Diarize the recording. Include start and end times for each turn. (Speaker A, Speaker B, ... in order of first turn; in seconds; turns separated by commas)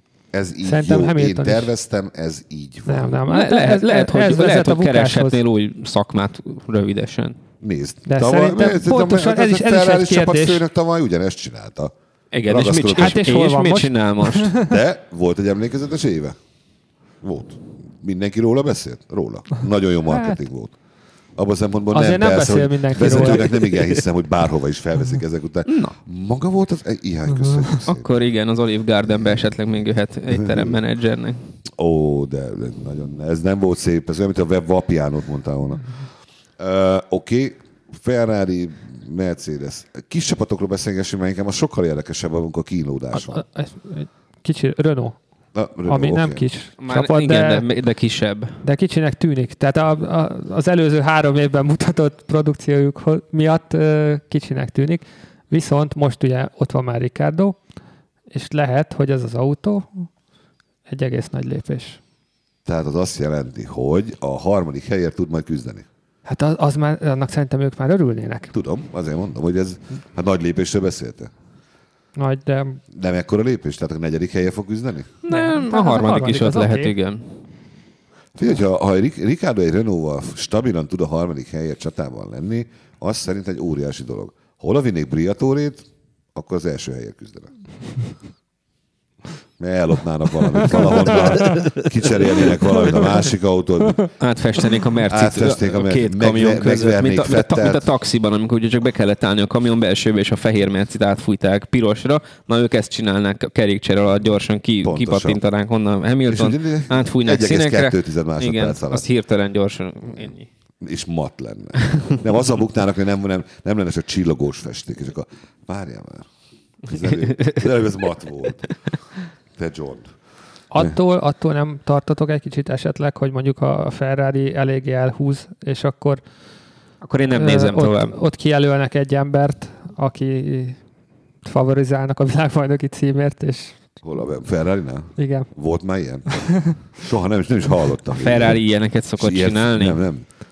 Speaker A: 0.3-3.1, Speaker B: 0.6-1.7, Speaker B: 2.9-5.4, Speaker C: 3.3-7.4, Speaker A: 7.6-11.9, Speaker B: 8.1-10.6, Speaker C: 12.3-14.5, Speaker A: 12.5-13.2, Speaker B: 12.9-14.8, Speaker A: 14.6-16.4, Speaker A: 17.2-20.8, Speaker B: 20.1-20.4, Speaker A: 21.4-28.2, Speaker B: 21.9-23.6, Speaker C: 23.0-23.8, Speaker C: 25.7-25.9, Speaker C: 27.9-31.5, Speaker A: 29.1-29.5, Speaker A: 30.3-30.8, Speaker A: 31.8-36.0, Speaker A: 36.6-43.4, Speaker B: 43.1-45.2, Speaker A: 45.5-46.5, Speaker B: 45.9-47.7, Speaker C: 46.8-48.6, Speaker B: 48.6-57.6, Speaker B: 58.3-60.1, Speaker B: 60.9-62.0, Speaker A: 62.7-65.9, Speaker B: 66.2-68.5, Speaker A: 68.5-71.3, Speaker B: 72.2-72.8, Speaker A: 72.9-75.1, Speaker C: 75.3-77.3, Speaker B: 75.3-76.9, Speaker A: 78.4-87.5, Speaker A: 89.6-94.1, Speaker C: 94.2-110.5, Speaker A: 95.1-97.9, Speaker A: 104.8-105.4, Speaker A: 106.3-109.0, Speaker A: 110.8-116.3, Speaker A: 116.8-118.7, Speaker A: 119.5-120.1, Speaker B: 120.7-126.2, Speaker C: 127.0-128.2, Speaker B: 127.3-130.8, Speaker B: 131.4-134.0, Speaker A: 134.0-138.6, Speaker B: 135.2-135.5, Speaker B: 136.3-136.8, Speaker C: 138.1-140.0, Speaker A: 139.2-140.2